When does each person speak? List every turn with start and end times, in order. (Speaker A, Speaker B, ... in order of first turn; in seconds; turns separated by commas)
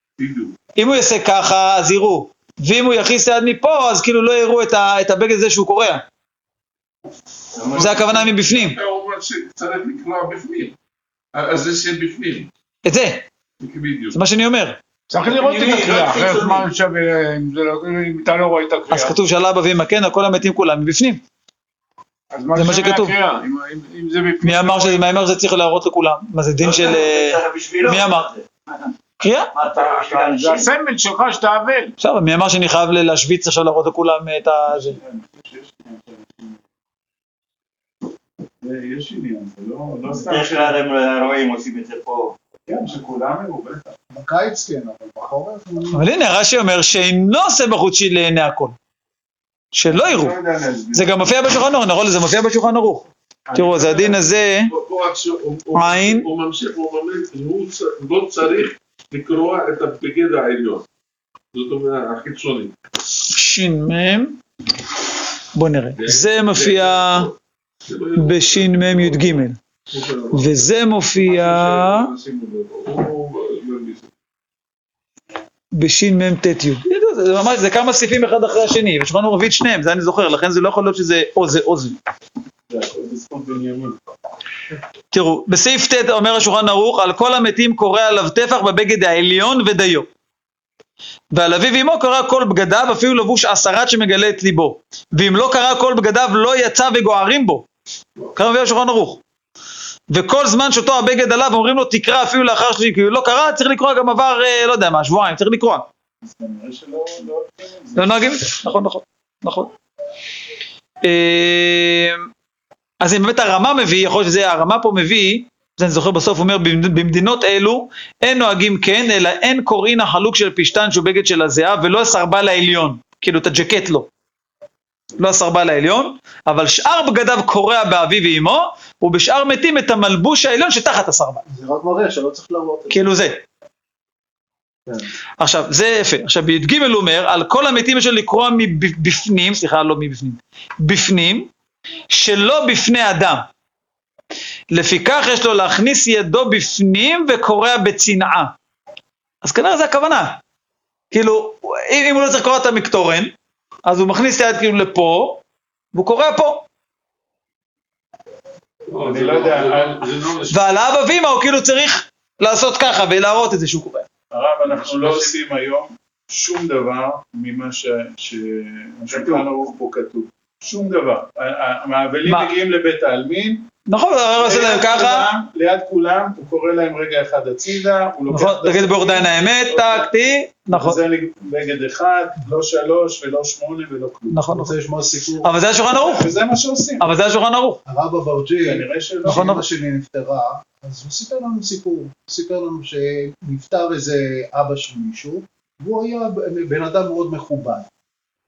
Speaker A: 0.2-0.6, Speaker B: 0.8-6.0, Speaker A: 7.5-10.8, Speaker B: 7.8-8.8, Speaker A: 11.3-12.5, Speaker B: 12.8-13.2, Speaker A: 13.6-14.2, Speaker B: 14.1-14.8, Speaker C: 15.1-19.2, Speaker D: 15.3-16.7, Speaker B: 18.9-21.2, Speaker C: 22.3-25.0, Speaker B: 22.6-23.1, Speaker B: 24.4-28.3, Speaker D: 26.6-28.5, Speaker B: 29.2-29.5, Speaker D: 29.5-30.7, Speaker C: 30.0-31.9, Speaker E: 30.0-30.4, Speaker B: 32.0-35.0, Speaker E: 34.7-36.6, Speaker E: 38.6-40.8, Speaker D: 40.1-42.4, Speaker E: 42.7-44.0, Speaker F: 44.1-46.0, Speaker B: 45.9-48.8, Speaker B: 49.7-50.4, Speaker E: 49.9-51.1, Speaker B: 50.9-54.7, Speaker E: 53.5-54.3, Speaker A: 54.7-60.9, Speaker B: 55.8-56.3, Speaker A: 61.5-62.8, Speaker B: 63.3-64.4, Speaker B: 65.5-67.3, Speaker A: 66.0-70.6, Speaker B: 68.2-69.6, Speaker B: 70.3-72.1, Speaker A: 71.2-74.1, Speaker B: 75.7-82.0, Speaker E: 82.7-84.0, Speaker B: 85.1-90.1, Speaker B: 91.3-97.7, Speaker B: 98.3-99.2, Speaker B: 100.1-105.9, Speaker E: 106.2-108.2, Speaker B: 108.0-109.7, Speaker B: 111.0-112.3, Speaker B: 113.0-124.1, Speaker B: 125.2-131.4, Speaker F: 131.5-133.1, Speaker B: 132.9-133.4, Speaker B: 135.4-141.5, Speaker B: 142.1-143.5, Speaker B: 144.7-148.5, Speaker B: 149.4-150.4, Speaker B: 151.1-153.3, Speaker B: 153.9-155.4, Speaker B: 155.9-156.6, Speaker A: 158.9-160.6, Speaker E: 159.0-160.4, Speaker B: 160.5-164.1, Speaker E: 164.3-173.7, Speaker A: 164.6-165.3, Speaker B: 172.2-172.5, Speaker B: 173.9-175.3, Speaker E: 174.4-180.1, Speaker B: 178.3-181.0, Speaker E: 180.7-184.5, Speaker B: 184.3-184.7, Speaker F: 184.5-185.5, Speaker B: 185.4-186.3, Speaker E: 185.9-187.1, Speaker B: 187.0-187.8, Speaker F: 187.9-197.9, Speaker E: 188.7-189.5, Speaker B: 189.3-189.6